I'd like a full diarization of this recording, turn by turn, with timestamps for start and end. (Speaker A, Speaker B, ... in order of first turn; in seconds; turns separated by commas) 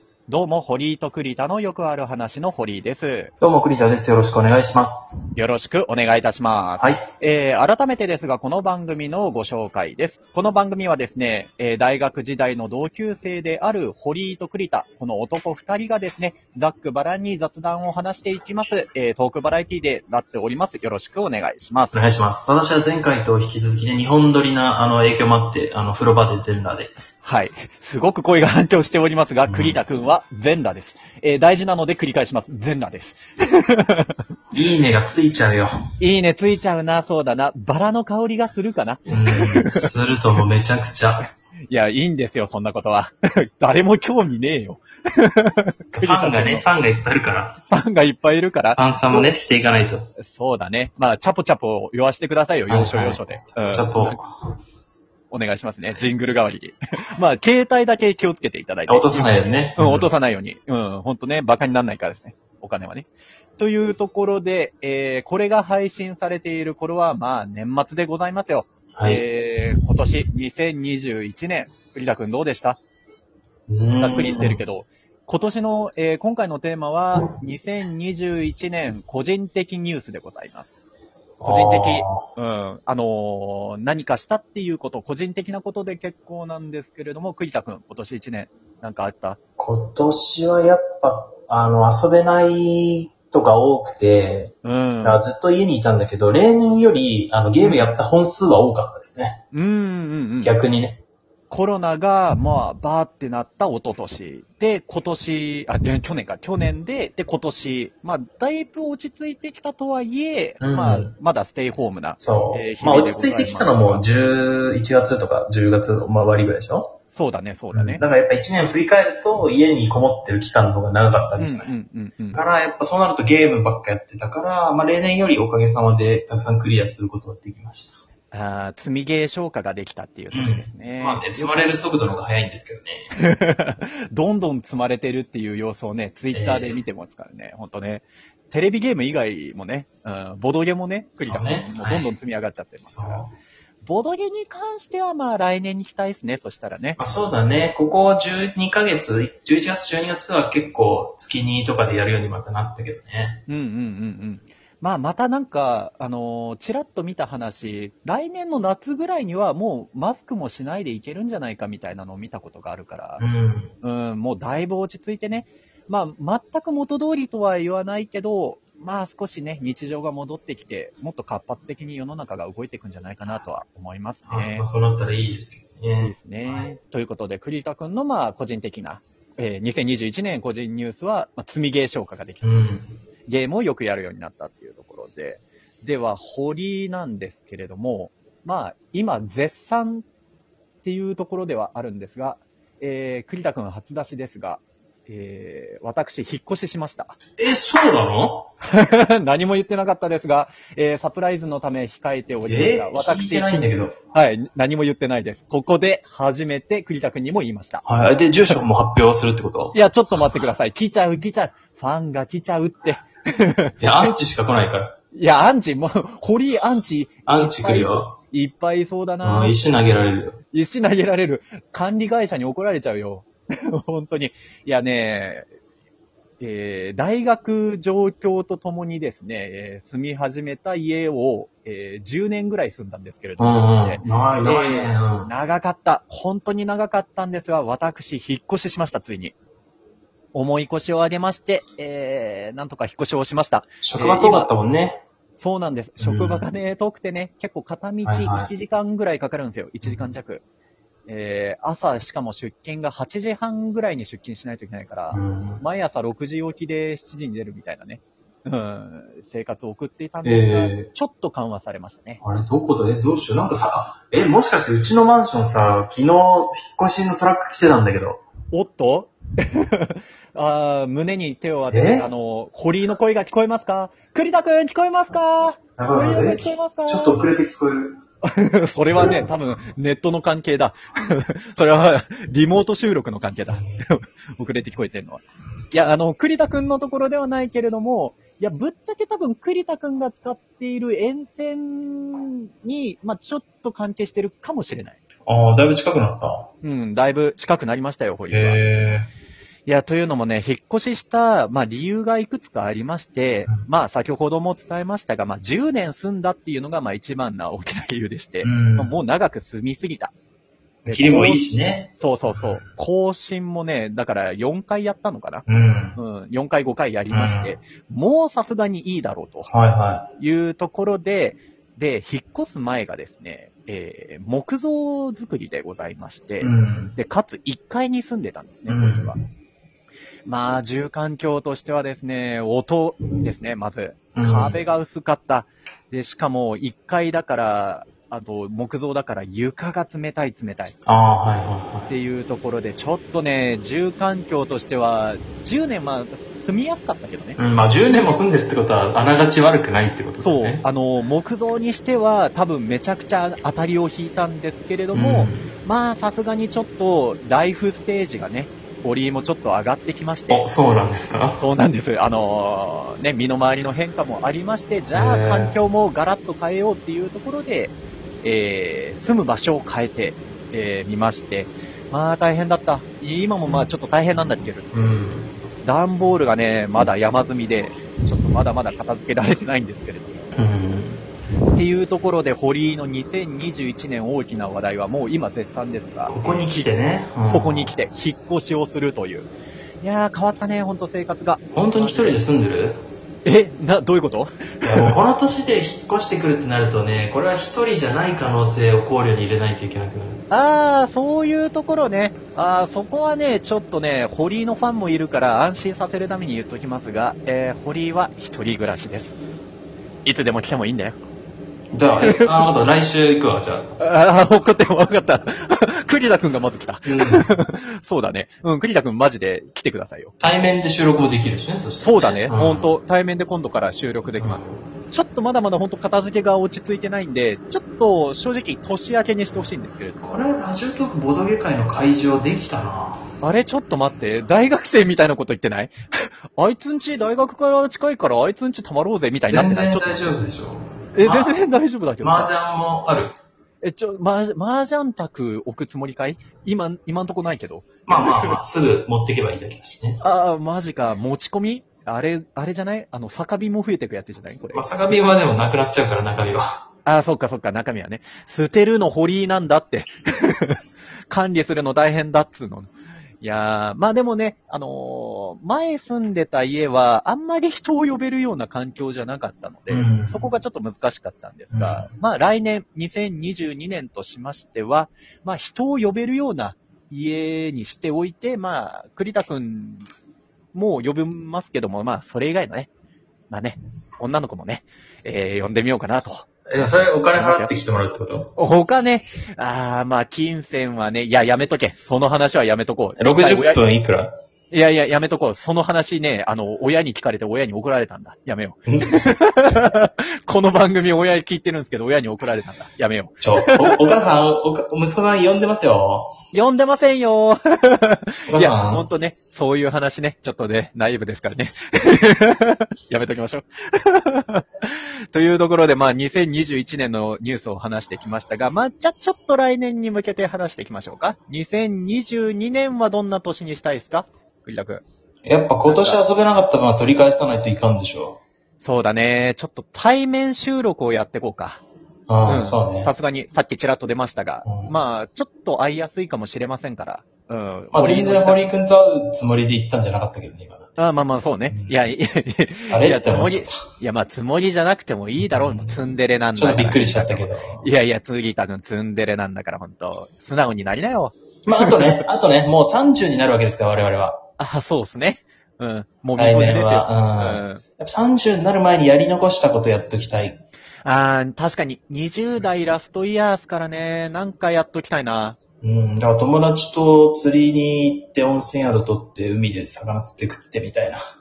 Speaker A: 0.3-3.3, Speaker B: 3.4-5.3, Speaker A: 5.3-22.0, Speaker B: 21.9-26.9, Speaker A: 27.2-34.2, Speaker B: 29.5-29.8, Speaker B: 34.5-35.7, Speaker A: 36.0-39.9, Speaker B: 39.1-41.3, Speaker A: 41.7-46.6, Speaker B: 46.0-47.6, Speaker A: 47.7-49.3, Speaker B: 48.7-50.1, Speaker A: 50.2-54.2, Speaker B: 52.7-54.3, Speaker A: 55.3-63.1, Speaker B: 58.9-60.1, Speaker A: 63.6-72.8, Speaker B: 68.9-69.2, Speaker B: 73.7-74.6, Speaker A: 74.0-80.7, Speaker B: 81.4-82.2, Speaker A: 81.4-89.4, Speaker B: 89.6-99.4, Speaker A: 94.6-95.2, Speaker A: 97.6-98.0, Speaker A: 99.5-100.5, Speaker B: 100.4-101.0, Speaker A: 101.5-114.1, Speaker B: 110.6-111.1, Speaker B: 112.2-117.0, Speaker A: 117.1-118.0, Speaker B: 117.7-121.7, Speaker A: 121.4-122.4, Speaker B: 122.3-128.0, Speaker A: 128.3-131.8, Speaker B: 130.3-133.1, Speaker A: 133.1-143.3, Speaker B: 136.3-136.8, Speaker B: 141.2-142.1, Speaker B: 142.9-143.3, Speaker A: 143.8-147.0, Speaker B: 147.0-153.4, Speaker A: 153.5-163.2, Speaker B: 163.2-163.7, Speaker A: 163.8-174.7, Speaker B: 174.3-176.7, Speaker A: 176.0-182.6, Speaker B: 182.4-182.9, Speaker A: 183.3-190.1, Speaker A: 190.8-197.2, Speaker B: 197.4-198.5, Speaker A: 198.6-207.8, Speaker B: 202.4-203.9, Speaker B: 207.8-209.8, Speaker A: 209.7-214.1, Speaker B: 213.8-214.9, Speaker A: 215.1-219.6, Speaker B: 217.2-218.1, Speaker B: 219.2-220.4, Speaker A: 220.5-225.5, Speaker A: 226.4-239.3, Speaker B: 233.4-235.3, Speaker A: 240.3-244.5, Speaker B: 243.8-245.0, Speaker A: 245.4-250.4, Speaker B: 246.0-246.4, Speaker B: 248.0-248.5, Speaker A: 251.1-262.2, Speaker B: 255.1-255.6, Speaker B: 260.2-260.9, Speaker B: 262.2-268.2, Speaker A: 268.5-277.2, Speaker B: 271.7-272.1, Speaker B: 275.8-278.0, Speaker A: 278.2-295.0, Speaker B: 295.2-296.5, Speaker A: 296.6-298.6, Speaker B: 298.3-299.1, Speaker A: 299.6-310.1, Speaker B: 308.4-308.9, Speaker A: 310.9-319.5, Speaker B: 310.9-312.6, Speaker B: 315.5-316.0, Speaker B: 317.1-317.5, Speaker B: 319.5-320.1, Speaker A: 320.2-329.1, Speaker B: 326.4-326.9, Speaker B: 328.7-329.1, Speaker A: 330.2-340.8, Speaker B: 334.1-334.6, Speaker B: 340.9-341.9, Speaker A: 341.9-347.4, Speaker B: 347.4-350.6, Speaker A: 350.2-360.5, Speaker B: 354.9-355.5, Speaker B: 360.3-361.4, Speaker A: 361.3-374.9, Speaker B: 364.9-365.5, Speaker B: 374.7-375.3, Speaker A: 375.6-380.3, Speaker B: 380.3-381.0, Speaker A: 381.5-386.7, Speaker B: 386.1-387.7, Speaker A: 387.3-389.3, Speaker A: 389.8-392.2, Speaker B: 391.5-392.8, Speaker A: 393.2-394.9, Speaker B: 394.6-400.2, Speaker A: 400.3-409.1, Speaker A: 410.0-411.0, Speaker B: 411.7-413.7, Speaker A: 412.0-412.4, Speaker A: 413.8-420.1, Speaker B: 416.9-417.4, Speaker B: 420.2-422.7, Speaker A: 421.8-430.0, Speaker B: 424.2-424.6, Speaker B: 430.0-433.0, Speaker A: 433.2-440.1, Speaker B: 439.3-441.4, Speaker A: 440.9-442.3, Speaker B: 442.0-443.2, Speaker A: 443.6-448.4, Speaker B: 447.9-450.0, Speaker A: 450.0-454.8, Speaker B: 454.5-456.6, Speaker A: 456.9-479.9, Speaker B: 469.7-470.3, Speaker B: 471.5-471.9, Speaker A: 480.5-482.7, Speaker A: 483.3-487.5, Speaker B: 486.5-488.3, Speaker A: 488.4-493.6, Speaker B: 493.0-494.1, Speaker A: 494.5-503.9, Speaker B: 498.7-499.0, Speaker B: 503.2-506.1, Speaker A: 506.3-524.8, Speaker B: 508.3-508.9, Speaker B: 525.2-528.2, Speaker A: 525.7-526.0, Speaker A: 528.6-531.6, Speaker B: 532.1-532.9, Speaker A: 532.2-538.4, Speaker B: 534.4-534.7, Speaker B: 537.7-540.8, Speaker A: 540.8-552.0, Speaker B: 541.5-541.7, Speaker B: 542.7-543.6, Speaker B: 545.3-545.8, Speaker B: 546.4-547.6, Speaker B: 551.5-554.2, Speaker A: 554.4-557.6, Speaker B: 556.1-560.4, Speaker A: 560.8-565.4, Speaker B: 565.6-571.0